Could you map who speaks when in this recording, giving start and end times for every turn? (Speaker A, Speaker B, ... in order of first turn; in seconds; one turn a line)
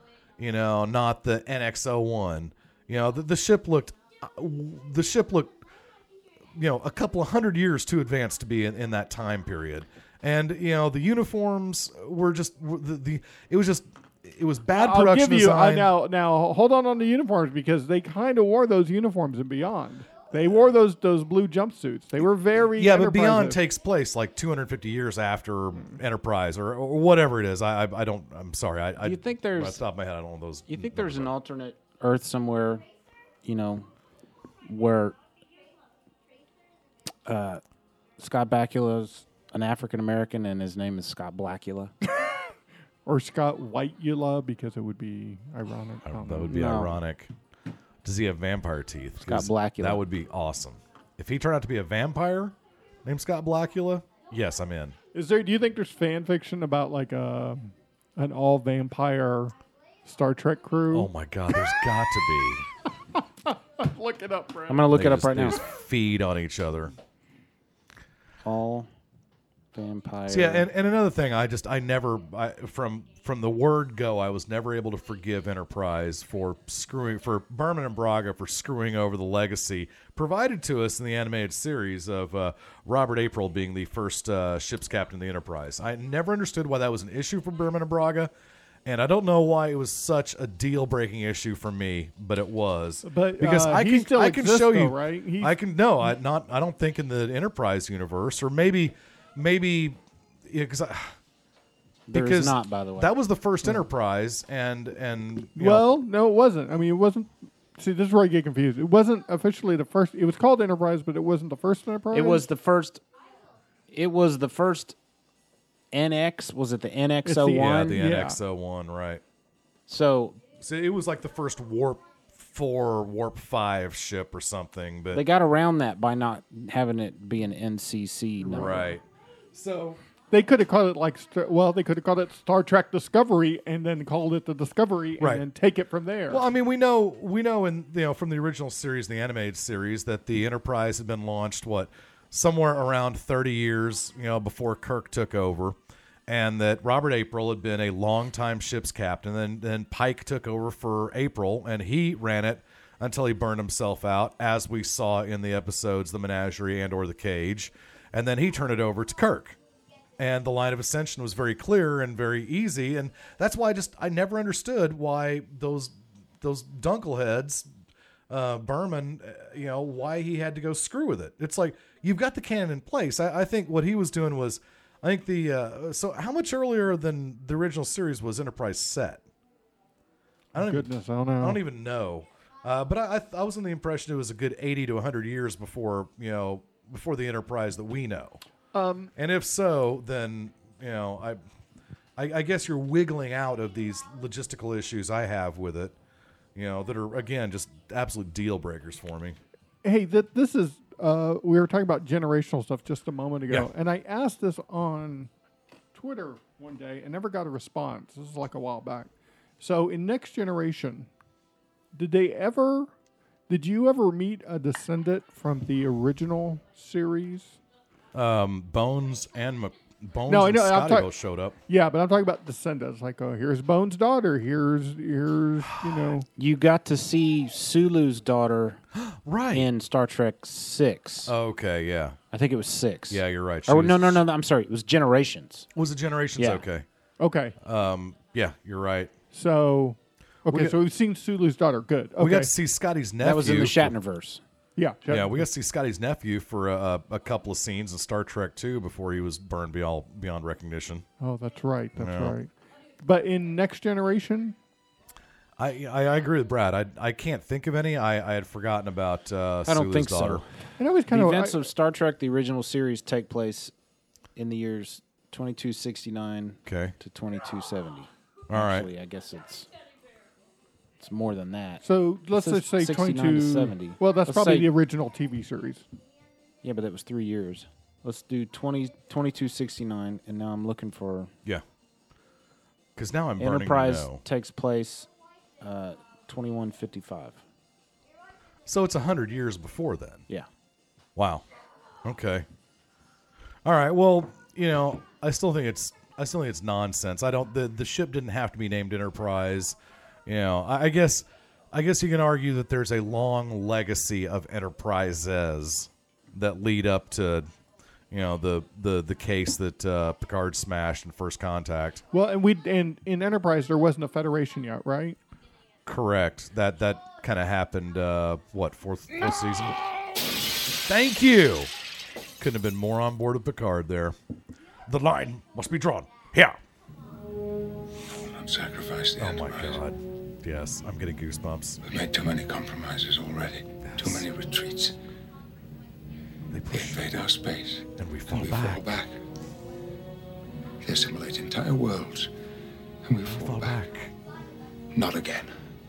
Speaker A: 0.4-5.6
Speaker A: 6.5-15.9
Speaker B: 14.7-23.6
Speaker A: 22.7-31.3
Speaker C: 29.0-29.8
Speaker C: 30.7-32.8
Speaker C: 33.4-33.9
Speaker C: 34.6-35.1
Speaker C: 37.2-37.6
Speaker C: 38.2-41.9
Speaker B: 43.0-46.5
Speaker A: 46.0-47.3
Speaker C: 46.5-46.9
Speaker A: 48.0-55.0
Speaker C: 49.2-50.0
Speaker B: 55.1-59.5
Speaker B: 60.0-61.1
Speaker A: 60.9-62.7
Speaker B: 63.5-64.9
Speaker C: 64.7-65.6
Speaker A: 64.9-66.9
Speaker C: 68.4-68.9
Speaker C: 69.7-70.7
Speaker A: 70.3-88.3
Speaker A: 88.8-101.1
Speaker B: 93.0-95.5
Speaker C: 102.1-103.1
Speaker A: 102.1-105.9
Speaker B: 105.5-112.4
Speaker C: 112.1-113.0
Speaker C: 113.9-115.0
Speaker C: 115.9-118.0
Speaker B: 117.2-118.4
Speaker A: 117.6-119.2
Speaker C: 119.9-120.4
Speaker A: 120.6-125.2
Speaker C: 125.1-128.9
Speaker A: 128.4-130.0
Speaker B: 130.3-136.4
Speaker A: 135.2-135.4
Speaker A: 136.3-159.6
Speaker A: 160.2-167.7
Speaker A: 168.3-179.2
Speaker A: 180.5-180.9
Speaker B: 180.6-181.6
Speaker A: 181.4-188.4
Speaker B: 188.7-189.1
Speaker A: 189.2-191.4
Speaker A: 192.2-195.9
Speaker A: 196.5-199.4
Speaker B: 199.8-205.3
Speaker B: 205.9-211.1
Speaker B: 211.9-212.9
Speaker B: 213.5-217.6
Speaker A: 218.1-221.6
Speaker B: 220.3-221.1
Speaker B: 221.7-226.2
Speaker C: 226.4-228.8
Speaker A: 228.9-229.7
Speaker C: 229.5-231.3
Speaker A: 231.2-232.2
Speaker C: 232.3-235.7
Speaker A: 233.1-234.2
Speaker A: 235.7-236.8
Speaker C: 236.4-236.6
Speaker B: 237.2-237.6
Speaker A: 237.6-239.1
Speaker B: 239.3-242.5
Speaker A: 240.5-240.8
Speaker A: 242.2-243.9
Speaker C: 243.2-244.4
Speaker B: 244.8-245.4
Speaker A: 245.1-251.0
Speaker B: 251.2-252.5
Speaker A: 251.9-252.3
Speaker B: 253.0-254.6
Speaker A: 255.6-260.4
Speaker C: 259.7-260.4
Speaker B: 260.8-261.6
Speaker C: 261.1-263.7
Speaker C: 264.4-269.7
Speaker A: 266.6-266.9
Speaker A: 268.5-268.9
Speaker C: 271.0-274.7
Speaker B: 271.8-275.8
Speaker C: 276.6-281.3
Speaker A: 282.9-284.2
Speaker C: 283.4-285.1
Speaker C: 285.6-287.4
Speaker A: 288.6-290.2
Speaker A: 291.1-291.4
Speaker A: 292.0-292.4
Speaker A: 293.6-307.5
Speaker A: 308.1-312.0
Speaker B: 312.1-315.2
Speaker A: 315.9-319.8
Speaker A: 320.8-321.7
Speaker A: 322.4-324.1
Speaker A: 324.9-326.6
Speaker D: 328.1-329.8
Speaker A: 329.2-332.0
Speaker D: 331.8-334.9
Speaker A: 333.8-334.2
Speaker A: 336.5-337.3
Speaker D: 336.7-339.1
Speaker A: 337.9-338.9
Speaker D: 340.8-342.3
Speaker D: 343.0-343.8
Speaker A: 343.2-344.1
Speaker D: 344.9-345.5